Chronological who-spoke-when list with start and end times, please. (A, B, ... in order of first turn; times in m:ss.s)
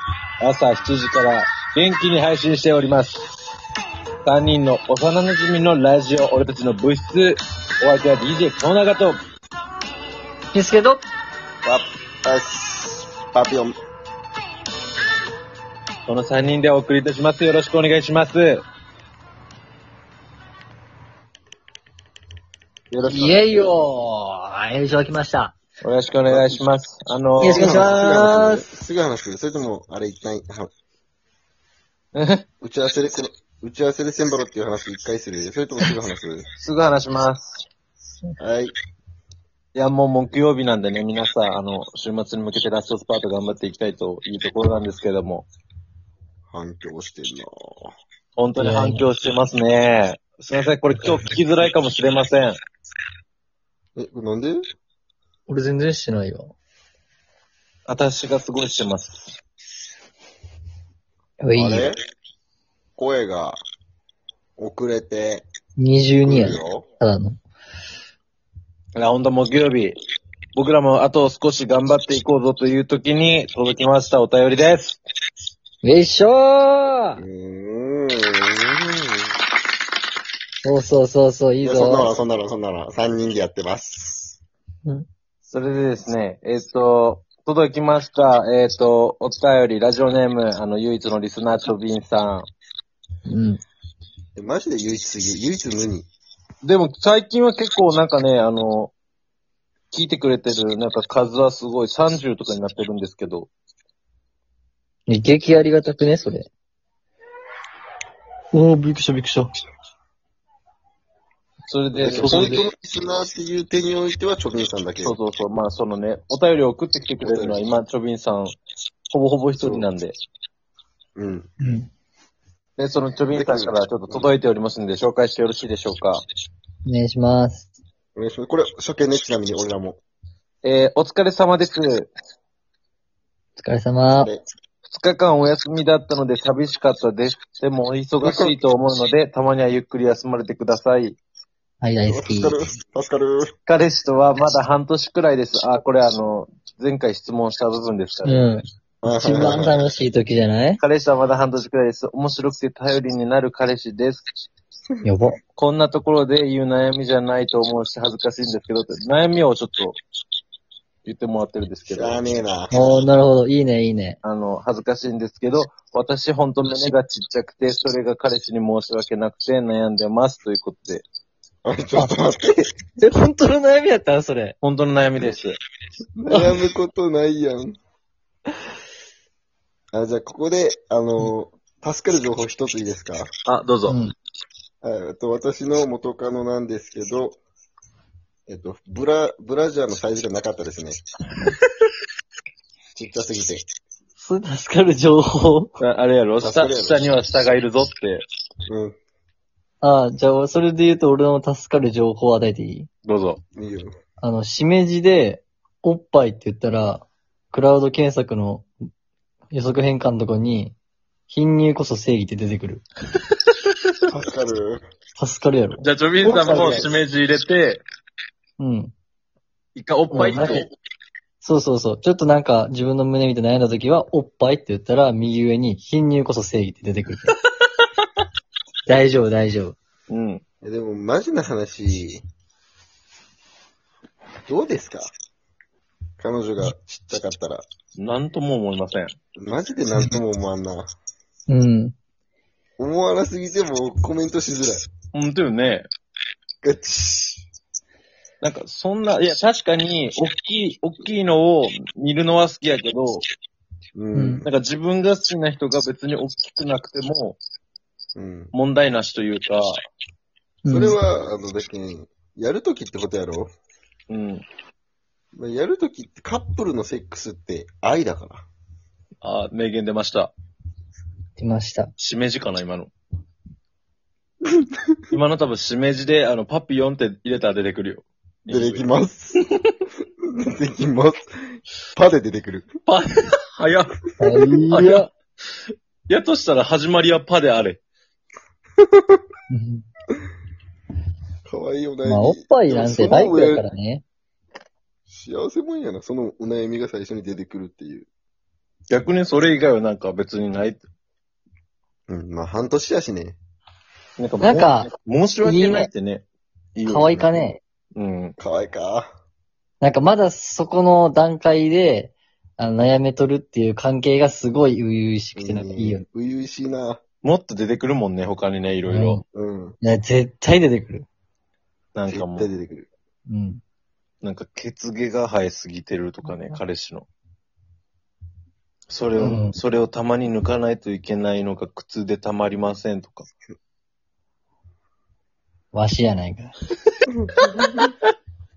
0:00.4-0:03.2 A
0:04.2-0:09.2 A
0:10.5-0:11.0 B
0:11.6-0:13.8 C
0:16.1-0:18.6 A
0:22.9-0:23.4 A
0:23.1-0:25.5 B
0:25.8-0:28.2 A
0:26.3-0:26.6 C
0:27.4-0:28.6 B
0:27.4-0:30.7 C
0:32.1-0:32.4 A
0:32.6-0:36.4 C
0:36.6-0:37.6 A
0:38.4-0:38.7 C
0:39.7-0:45.5 A
0:46.5-0:47.9 C
0:48.4-0:52.6 A
0:48.6-0:49.0 B
0:54.0-0:54.6 C
0:55.5-0:56.5 B
0:57.9-0:59.4 A
1:01.4-1:01.9 B
1:01.5-1:02.0 C
1:03.0-1:03.6 C
1:04.6-1:05.4 C
1:05.8-1:07.4 B
1:06.2-1:06.8 C
1:09.0-1:09.9 A
1:10.5-1:15.0 A
1:15.8-1:17.2 B
1:17.2-1:19.3 C
1:20.6-1:22.1 B
1:21.6-1:24.4 C
1:25.4-1:32.5 A
1:33.3-1:33.6 B
1:34.4-1:36.1 C
1:36.6-1:38.9 A
1:39.9-1:43.5 A
1:45.1-1:46.5 B
1:48.5-1:49.5 B
1:51.7-1:52.6 A
1:52.0-1:55.2 C
1:52.1-1:52.6 B
1:55.0-1:58.6 A
1:57.2-1:57.6 C
1:59.1-2:00.1 A
1:59.6-1:59.8 C
2:01.2-2:01.5 C
2:01.6-2:01.9 B
2:02.8-2:06.2 A
2:03.3-2:04.3 C
2:06.8-2:07.7 B
2:08.2-2:10.0 C
2:10.6-2:12.1 A
2:13.6-2:14.3 B
2:14.1-2:14.4 C
2:14.9-2:21.2 A
2:18.2-2:18.5 C
2:21.8-2:22.6 B
2:22.0-2:23.5 C
2:23.7-2:28.5 A
2:28.2-2:30.8 B
2:29.0-2:29.8 C
2:30.8-2:34.3 A
2:35.0-2:35.4 B
2:35.6-2:40.0 A
2:41.0-2:42.4 A
2:41.9-2:43.1 C
2:42.7-2:44.2 B
2:44.2-2:51.0 A
2:51.6-2:52.7 C
2:53.0-2:54.5 B
2:54.6-2:55.6 A
2:56.2-2:57.7 C
2:56.3-2:56.6 B
2:59.9-3:03.3 C
3:03.4-3:04.0 A
3:03.9-3:04.1 B
3:04.8-3:07.4 C
3:08.5-3:11.0 C
3:12.9-3:13.6 C
3:14.2-3:15.7 B
3:15.8-3:18.2 A
3:16.4-3:17.0 C
3:18.7-3:18.9 C
3:19.8-3:22.9 B
3:23.1-3:23.4 A
3:23.6-3:23.9 C
3:24.2-3:28.7 B
3:29.5-3:30.8 B
3:31.3-3:32.8 B
3:34.1-3:34.8 C
3:35.2-3:36.9 B
3:35.8-3:37.8 A
3:36.2-3:36.9 C
3:38.6-3:38.9 B
3:39.8-3:40.7 A
3:40.1-3:40.7 B
3:41.4-3:47.3 B
3:48.9-3:49.8 B
3:50.1-3:50.4 A
3:50.6-3:52.2 C
3:54.5-3:55.1 C
3:56.2-3:57.6 C
3:58.0-3:59.2 A
3:59.4-4:00.9 C
4:01.5-4:01.9 B
4:02.8-4:04.8 C
4:05.1-4:05.9 A
4:06.6-4:07.4 C
4:08.4-4:13.2 A
4:13.9-4:14.5 C
4:14.1-4:14.4 B
4:14.4-4:17.4 A
4:18.1-4:18.5 C
4:18.5-4:19.8 A
4:20.6-4:21.0 B
4:20.7-4:23.5 C
4:24.1-4:24.4 A
4:25.3-4:28.5 C
4:29.2-4:30.3 A
4:31.4-4:31.9 B
4:32.0-4:32.9 A
4:35.1-4:38.8 A
4:38.5-4:39.4 C
4:40.3-4:41.2 C
4:41.9-4:42.7 C
4:42.9-4:44.0 A
4:44.2-4:45.1 B
4:44.7-4:45.1 A
4:46.1-4:47.8 A
4:49.5-4:49.8 B
4:51.4-4:53.6 C
4:52.0-4:54.0 B
4:55.1-4:58.1 C
4:58.9-5:00.8 A
5:02.1-5:03.4 C
5:04.2-5:06.2 A
5:04.4-5:04.9 B
5:05.4-5:05.9 B
5:06.8-5:07.1 A
5:06.8-5:07.6 B
5:07.0-5:07.3 C
5:08.0-5:08.4 A
5:08.4-5:09.1 C
5:09.8-5:16.0 B
5:15.4-5:17.0 C
5:17.2-5:19.2 A
5:18.9-5:19.2 B
5:19.3-5:19.8 C
5:19.8-5:21.1 B
5:21.9-5:22.5 A
5:22.1-5:22.9 C
5:23.3-5:23.6 B
5:24.2-5:27.1 A
5:28.9-5:33.3 A
5:29.2-5:29.5 B
5:35.7-5:36.5 B
5:37.4-5:37.9 A